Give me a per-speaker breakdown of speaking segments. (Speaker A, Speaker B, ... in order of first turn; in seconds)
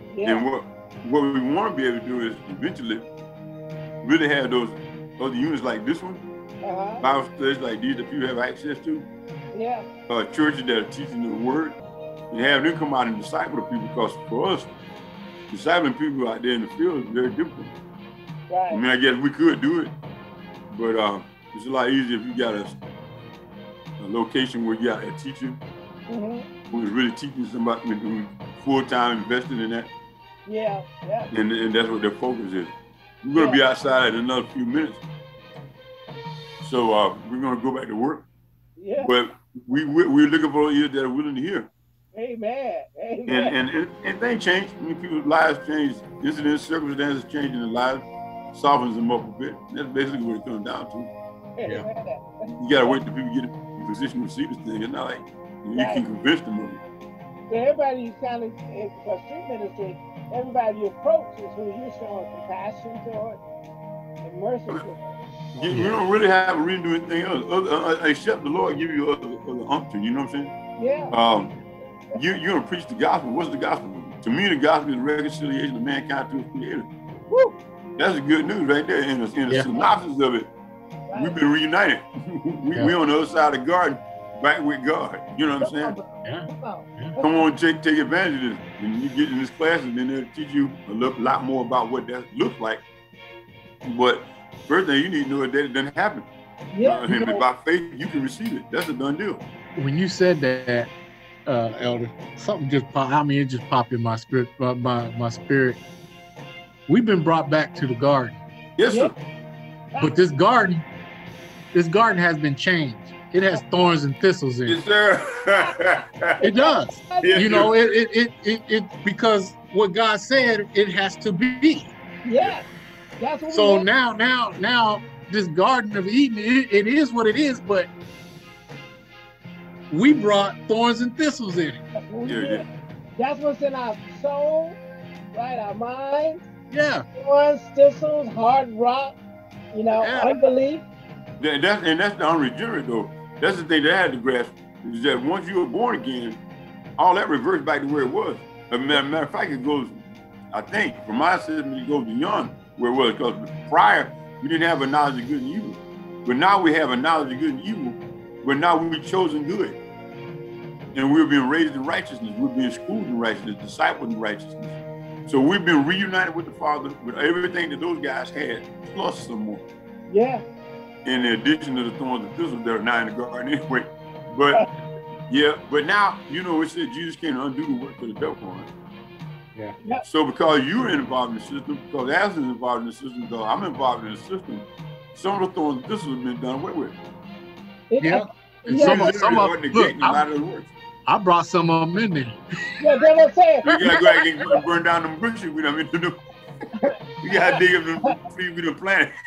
Speaker A: 0.1-0.4, 6.6-7.0, 9.5-9.9, 18.5-18.8, 26.1-26.4, 30.4-31.3, 33.4-33.6, 38.8-39.1, 42.1-43.5, 51.6-53.0, 55.7-56.0, 57.5-63.4, 64.2-65.2, 70.8-71.2, 77.3-77.6, 81.1-81.4, 85.6-87.3, 96.7-97.4, 108.9-109.1, 116.4-117.5, 122.2-122.7, 123.2-123.9, 131.9-132.6, 133.2-134.8, 135.3-136.4, 137.1-139.2, 139.7-140.8, 170.1-170.4, 187.9-189.1, 192.8-193.8, 196.8-198.1
Speaker B: 0.2-3.1, 4.0-6.2, 7.0-9.1, 10.1-11.8, 12.3-14.7, 15.5-17.7, 18.7-19.9, 20.7-22.8, 24.0-25.6, 26.7-29.9, 31.3-32.7, 33.2-35.0, 36.6-38.3, 39.0-41.7, 43.3-51.1, 52.5-56.8, 65.5-70.5, 71.1-71.5, 72.1-76.9, 78.0-80.5, 81.1-86.0, 87.2-92.8, 93.8-96.3, 96.8-99.4, 108.8-109.1, 114.7-116.3, 117.2-117.7, 132.2-132.6, 141.4-146.4, 147.0-150.0, 150.5-159.8, 160.9-169.6, 171.0-174.6, 175.3-178.7, 180.1-186.9, 188.7-190.7, 193.7-196.2, 197.2-199.1
Speaker C: 65.7-66.0, 86.2-87.2, 99.8-100.9, 101.5-105.8, 106.9-108.4, 110.0-110.8, 111.7-114.8, 116.4-121.9, 123.5-127.9, 129.9-131.8, 136.7-137.1, 140.0-140.3, 188.0-190.2, 191.1-192.9, 193.7-194.1